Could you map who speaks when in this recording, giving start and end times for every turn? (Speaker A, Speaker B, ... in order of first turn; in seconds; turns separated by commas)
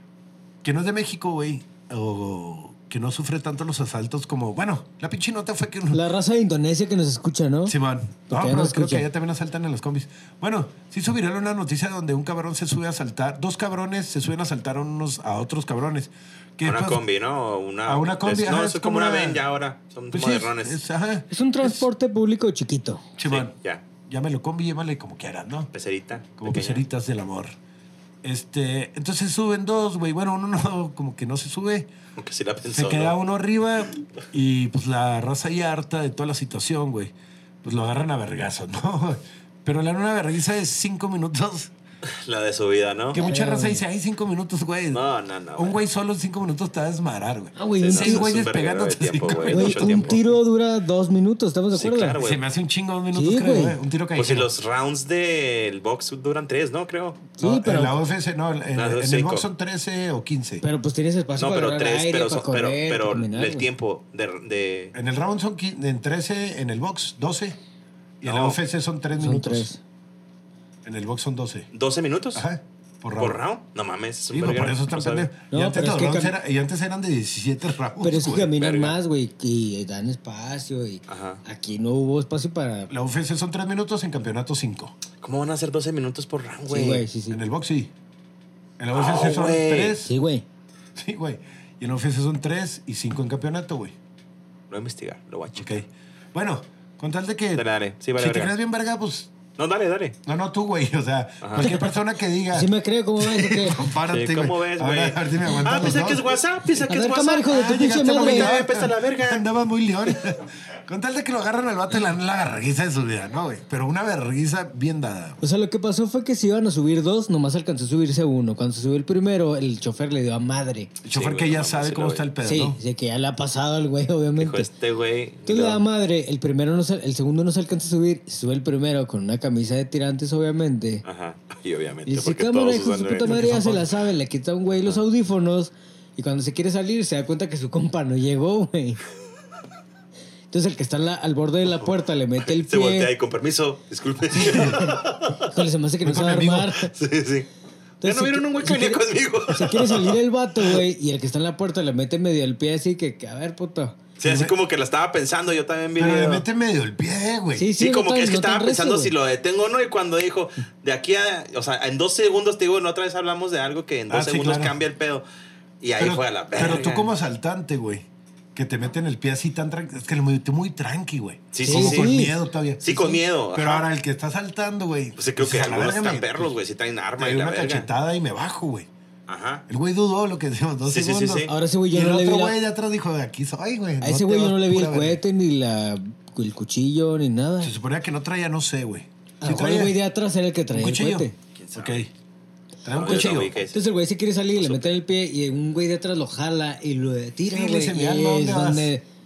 Speaker A: 0.6-6.0, Speaker B: 5.9-7.8, Speaker A: 7.7-17.0, Speaker B: 8.3-9.1, Speaker C: 16.6-20.8, Speaker A: 17.9-19.4, Speaker A: 20.1-21.9, Speaker B: 21.3-23.0, Speaker A: 23.2-23.5, Speaker C: 23.2-23.8, Speaker A: 24.1-25.7, Speaker C: 25.7-26.8, Speaker A: 26.4-27.6, Speaker A: 28.2-31.9, Speaker C: 32.2-33.1, Speaker A: 32.7-41.7, Speaker C: 42.0-43.3, Speaker A: 43.1-45.0, Speaker B: 43.1-43.8, Speaker C: 44.9-45.8, Speaker A: 45.6-50.2, Speaker B: 47.6-48.3, Speaker C: 47.8-50.2, Speaker B: 49.5-52.1, Speaker C: 51.7-52.4, Speaker A: 52.2-54.5, Speaker B: 53.1-53.8, Speaker C: 54.1-57.3, Speaker B: 57.4-58.0, Speaker A: 57.4-60.6, Speaker C: 58.7-59.5, Speaker B: 60.6-63.7, Speaker C: 61.4-64.9, Speaker A: 64.9-67.6, Speaker A: 68.2-69.7, Speaker C: 68.2-68.6, Speaker B: 69.1-69.8, Speaker A: 70.8-71.7, Speaker C: 71.7-72.5, Speaker A: 72.3-73.4, Speaker C: 73.2-75.3, Speaker A: 74.3-78.5, Speaker B: 75.5-76.3, Speaker B: 78.0-82.9, Speaker C: 78.6-79.0, Speaker C: 81.1-81.4, Speaker A: 82.9-85.0, Speaker C: 85.2-87.0, Speaker B: 86.7-87.4, Speaker A: 87.3-87.9, Speaker A: 88.8-90.1, Speaker C: 88.9-90.0, Speaker B: 90.1-90.5, Speaker A: 91.0-94.0, Speaker C: 94.7-95.8, Speaker A: 95.5-97.6, Speaker C: 97.5-98.5, Speaker A: 98.2-99.3, Speaker C: 99.6-100.2, Speaker A: 100.2-106.4, Speaker C: 101.4-101.7, Speaker B: 102.5-103.8, Speaker C: 104.1-109.5, Speaker B: 106.9-108.6, Speaker A: 107.5-115.4, Speaker B: 115.4-120.9, Speaker A: 121.0-122.8, Speaker C: 121.1-122.2, Speaker B: 122.4-124.7, Speaker C: 124.4-125.8, Speaker B: 125.5-131.0, Speaker C: 131.1-133.9, Speaker B: 132.1-139.0, Speaker A: 133.3-133.8, Speaker C: 134.7-135.0, Speaker B: 140.5-143.1, Speaker C: 142.4-145.5, Speaker B: 144.3-146.9, Speaker A: 144.5-144.8, Speaker A: 146.0-146.8, Speaker C: 146.9-147.5, Speaker C: 148.0-150.8, Speaker B: 148.0-154.0, Speaker C: 154.2-156.4, Speaker A: 154.2-154.5, Speaker A: 156.0-157.7, Speaker B: 157.6-159.1, Speaker C: 157.8-165.2, Speaker A: 164.1-164.7, Speaker C: 165.8-167.1, Speaker A: 166.0-176.5, Speaker C: 171.5-172.2, Speaker B: 171.6-172.3, Speaker C: 172.8-173.9, Speaker C: 175.2-177.9, Speaker A: 177.2-178.9, Speaker C: 179.3-179.6, Speaker A: 179.7-185.2, Speaker C: 180.9-181.5, Speaker B: 181.5-182.6, Speaker B: 184.0-187.7, Speaker A: 187.6-189.9, Speaker B: 189.4-191.3, Speaker A: 190.7-192.1, Speaker C: 191.6-192.0, Speaker A: 192.8-193.6, Speaker C: 192.9-193.8, Speaker B: 193.7-199.0, Speaker C: 194.6-194.9, Speaker A: 197.5-198.9